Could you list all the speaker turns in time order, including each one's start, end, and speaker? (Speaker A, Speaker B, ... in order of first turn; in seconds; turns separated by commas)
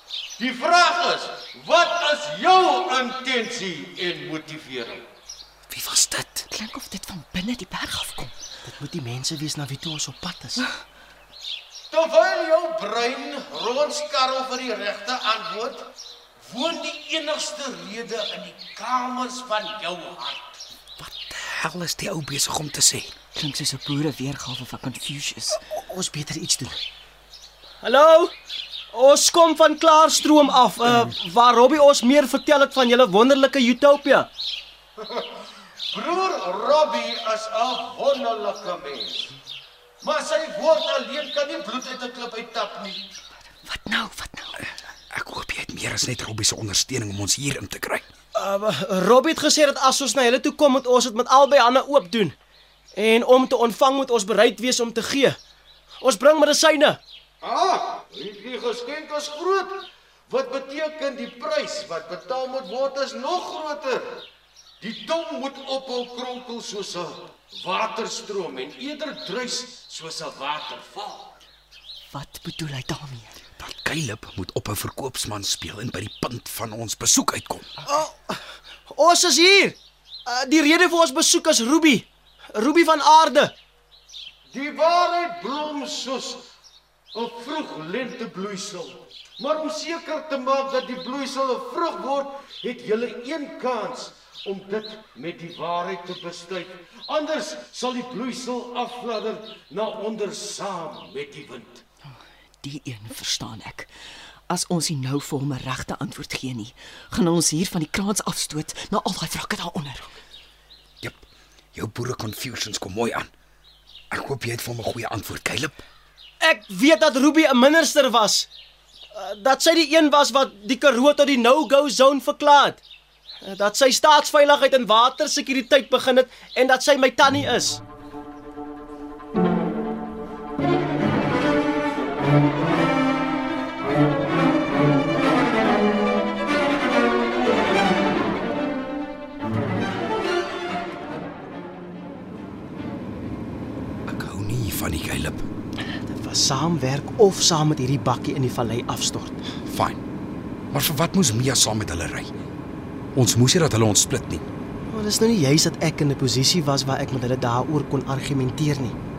Speaker A: 0.4-5.0, Speaker B: 5.7-6.3, Speaker C: 6.3-8.3, Speaker D: 8.7-10.7, Speaker A: 11.9-20.6, Speaker B: 21.0-23.2, Speaker C: 23.4-25.6, Speaker D: 25.6-26.8, Speaker D: 27.8-28.3, Speaker D: 28.9-34.3, Speaker A: 35.9-39.3, Speaker A: 40.0-43.1, Speaker C: 43.6-44.6, Speaker B: 45.1-48.1, Speaker D: 48.4-52.4, Speaker D: 53.0-55.4, Speaker D: 56.0-57.0, Speaker A: 57.4-64.2, Speaker A: 64.8-71.3, Speaker C: 72.1-73.4, Speaker B: 73.6-77.7, Speaker D: 77.8-83.5, Speaker A: 84.5-86.5, Speaker A: 87.1-101.8, Speaker C: 102.6-103.9, Speaker C: 104.5-110.2, Speaker B: 111.0-113.3, Speaker B: 114.1-115.8, Speaker D: 116.4-118.5, Speaker D: 119.1-122.8, Speaker D: 123.4-127.8, Speaker B: 144.1-145.4, Speaker D: 145.9-149.4, Speaker B: 149.7-150.0, Speaker B: 150.7-152.3, Speaker B: 153.2-154.4, Speaker D: 154.9-158.9